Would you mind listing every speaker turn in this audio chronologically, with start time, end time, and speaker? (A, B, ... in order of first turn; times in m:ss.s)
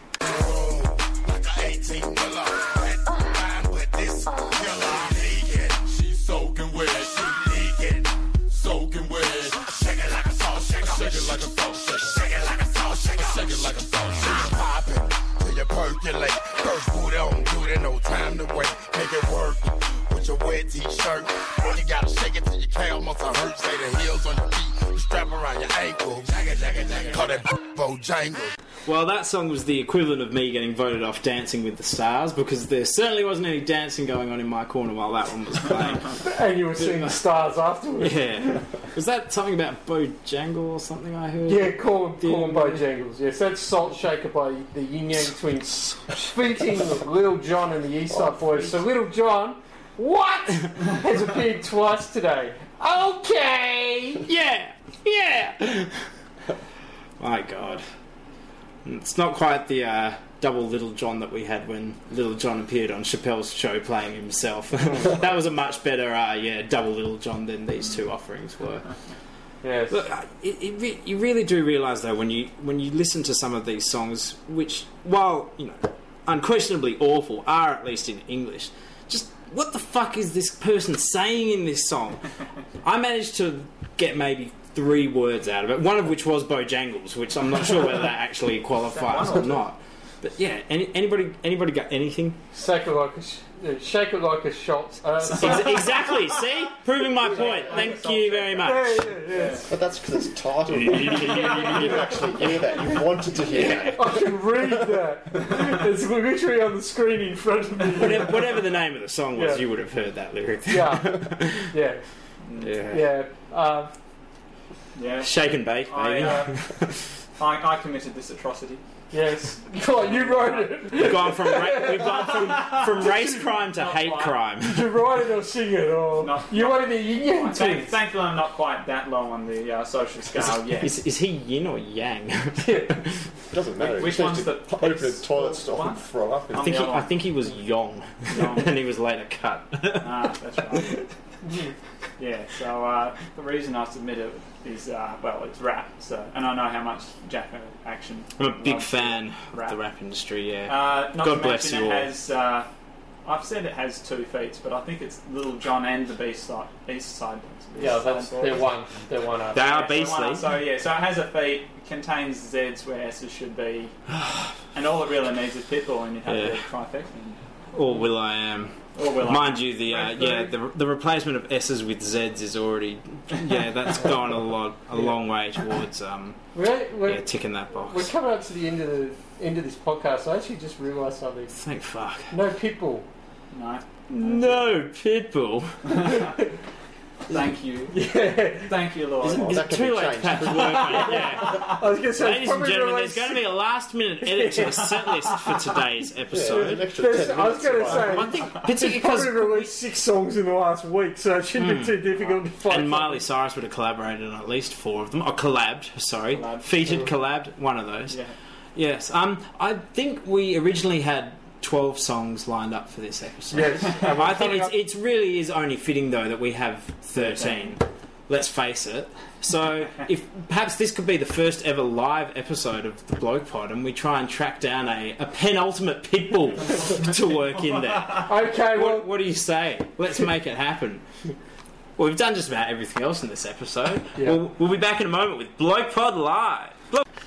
0:00.3-0:28.5 A
0:28.8-0:36.2 B
0:36.2-0:38.6 C
0:36.7-0:37.2 B
0:38.0-0:42.8 B
0:41.4-0:54.2 C
0:54.2-0:56.0 B
0:57.2-0:57.8 B
0:58.8-1:08.8 B
1:09.6-1:10.0 C
1:09.9-1:22.2 B
1:22.8-1:32.4 B
1:28.9-1:29.6 D
1:32.5-1:35.9 C
1:35.2-1:39.1 B
1:37.2-1:39.6 D
1:38.6-1:39.7 C
1:39.7-1:44.3 E
1:40.8-1:41.8 B
1:43.5-1:44.0 B
1:43.6-1:48.4 C
1:47.9-1:51.7 B
1:49.3-1:49.6 C
1:50.7-1:52.0 C
1:52.4-1:52.8 D
1:52.6-1:53.0 B
1:52.9-1:53.9 C
1:54.9-1:56.6 D
1:55.2-1:57.0 B
1:57.4-1:58.8 D
1:59.1-2:02.8 C
2:00.0-2:01.2 D
2:00.9-2:05.0 B
2:03.5-2:04.4 D
2:04.6-2:07.9 C
2:06.2-2:11.0 D
2:10.4-2:13.1 B
2:12.6-2:12.9 C
2:13.5-2:16.7 E
2:13.9-2:17.1 D
2:16.5-2:20.1 B
2:18.3-2:18.8 D
2:19.9-2:21.0 D
2:20.7-2:21.0 B
2:22.2-2:29.8 D
2:28.4-2:32.1 B
2:30.7-2:32.7 D
2:33.2-2:38.7 D
2:37.8-2:39.6 C
2:39.5-2:40.5 B
2:39.5-2:43.9 D
2:44.7-2:47.4 D
2:46.2-2:46.6 B
2:47.7-2:56.4 B
2:48.9-2:50.5 D
2:56.5-2:57.3 C
2:57.0-2:58.1 B
2:57.8-3:01.5 C
3:01.5-3:02.3 B
3:02.3-3:03.0 C
3:03.5-3:03.8 D
3:04.1-3:06.3 B
3:05.9-3:06.3 D
3:07.3-3:08.0 D
3:07.9-3:08.7 C
3:08.6-3:09.5 D
3:09.2-3:17.2 B
3:09.3-3:11.4 E
3:10.8-3:13.5 C
3:14.2-3:14.9 C
3:16.3-3:18.4 E
3:16.9-3:23.2 C
3:17.8-3:19.7 B
3:21.6-3:22.1 B
3:22.6-3:28.2 B
3:26.3-3:26.7 D
3:28.1-3:28.3 D
3:28.7-3:51.0 B
3:33.5-3:34.7 C
3:48.2-3:49.1 C
3:52.0-3:57.0 B